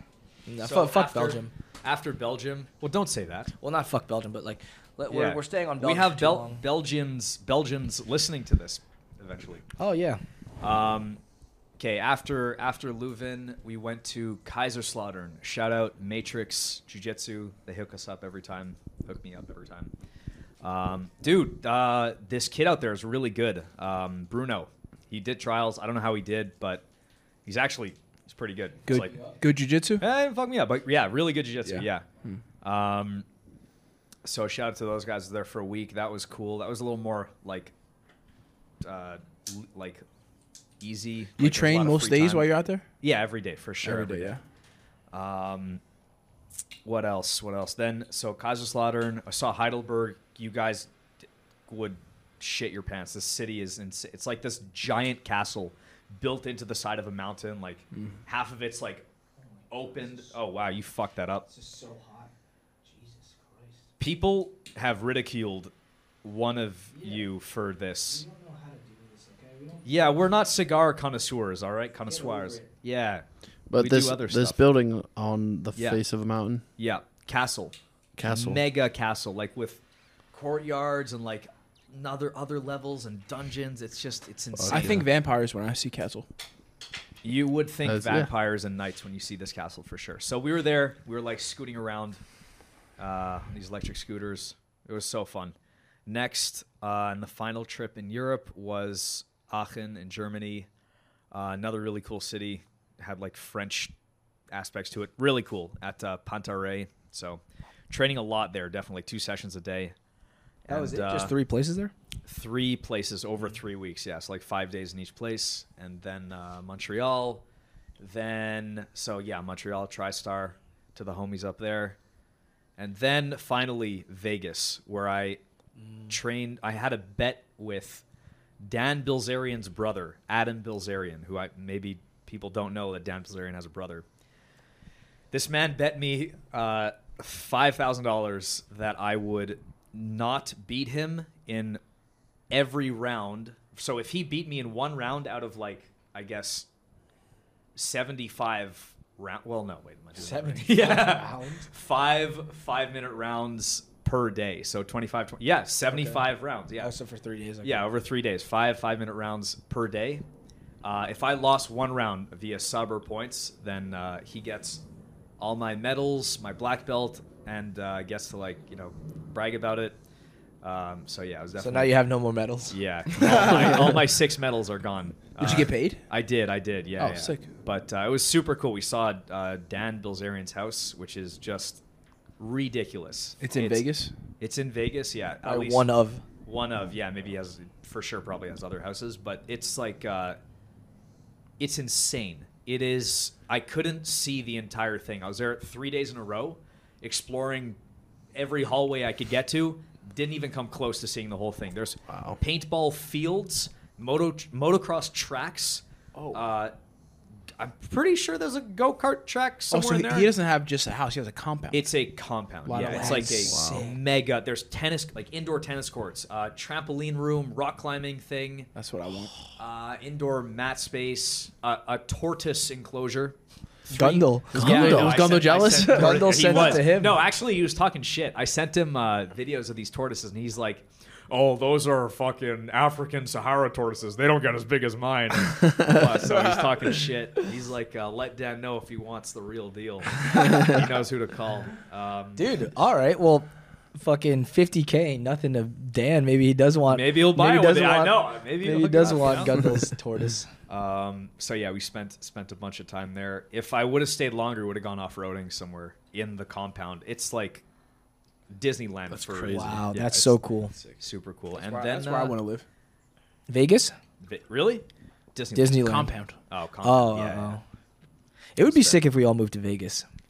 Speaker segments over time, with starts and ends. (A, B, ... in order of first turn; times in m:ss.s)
0:00.5-0:01.5 A
0:00.6-0:03.5 B
0:03.6-0:06.6 A
0:05.1-0:09.6 B
0:09.8-0:10.2 A
0:10.6-0:11.2 B
0:11.8-0:19.9 B
0:20.6-0:26.8 B
0:27.4-0:29.2 B
0:28.9-0:30.0 C
0:30.0-0:32.0 B
0:31.6-0:32.4 C
0:32.6-0:33.2 B
0:34.2-0:37.7 B
0:38.8-0:40.0 B
0:40.8-0:42.5 B
0:41.4-0:42.8 C
0:43.0-0:44.4 B
0:43.8-0:44.4 C
0:45.1-0:45.8 B
0:46.8-0:50.9 B
0:51.7-0:59.0 B
0:59.4-1:00.3 A
0:59.7-1:01.5 B
1:01.5-1:02.3 A
1:02.8-1:03.8 A
1:04.0-1:05.7 B
1:06.2-1:08.2 B
1:06.9-1:07.3 A
1:08.1-1:09.9 A
1:09.8-1:13.2 B
1:12.1-1:12.7 A
1:13.7-1:16.6 D
1:13.7-1:14.6 B
1:16.8-1:19.8 B
1:18.2-1:18.6 D
1:20.3-1:25.0 B
1:24.5-1:25.0 D
1:24.7-1:26.3 C
1:27.2-1:32.2 B
1:27.8-1:28.3 D
1:33.0-1:35.5 B
1:36.0-1:40.7 B
1:41.3-1:43.9 B
1:44.5-1:49.9 B
1:50.6-1:51.3 B
1:50.7-1:51.9 A
1:52.3-1:57.4 B
1:58.0-2:02.0 B
2:02.8-2:05.4 B
2:05.8-2:06.1 A
2:06.1-2:08.0 B
2:08.6-2:14.0 B
2:15.3-2:21.8 B
2:22.5-2:26.7 B
2:27.8-2:36.9 B
2:30.2-2:31.7 A
2:35.9-2:36.2 A
2:36.8-2:37.8 A
2:37.6-2:40.2 B
2:40.8-2:44.8 B
2:45.4-2:50.0 B
2:50.6-2:51.9 B
2:51.6-2:53.9 A
2:52.7-3:01.8 B
2:53.3-2:53.9 C
2:55.4-2:56.0 C
2:57.0-2:57.4 C
3:02.4-3:03.8 B
3:03.4-3:04.1 C
3:04.4-3:05.9 B
3:05.4-3:06.2 A
3:06.4-3:10.4 B
3:11.6-3:17.8 B
3:18.3-3:26.7 B
3:22.1-3:22.4 D
3:26.2-3:26.4 C
3:27.6-3:30.3 B
3:29.7-3:31.9 C
3:31.7-3:38.7 B
3:32.6-3:33.9 C
3:32.8-3:33.9 A
3:38.7-3:39.3 C
3:39.6-3:43.4 B
3:43.9-3:44.6 A
3:43.9-3:46.8 C
3:44.5-4:02.4 B
3:44.6-3:45.5 D
3:45.8-3:47.2 A
3:56.3-3:56.7 C
4:02.4-4:10.5 A
4:06.9-4:09.7 B
4:10.7-4:17.6 B
4:18.5-4:20.4 B
4:19.1-4:19.8 D
4:19.5-4:20.7 A
4:21.0-4:22.4 B
4:21.6-4:22.6 C
4:23.5-4:23.9 A
4:24.2-4:25.9 B
4:25.5-4:26.1 A
4:25.8-4:26.4 C
4:26.5-4:27.6 B
4:26.8-4:27.6 A
4:28.6-4:30.0 A
4:28.6-4:29.0 B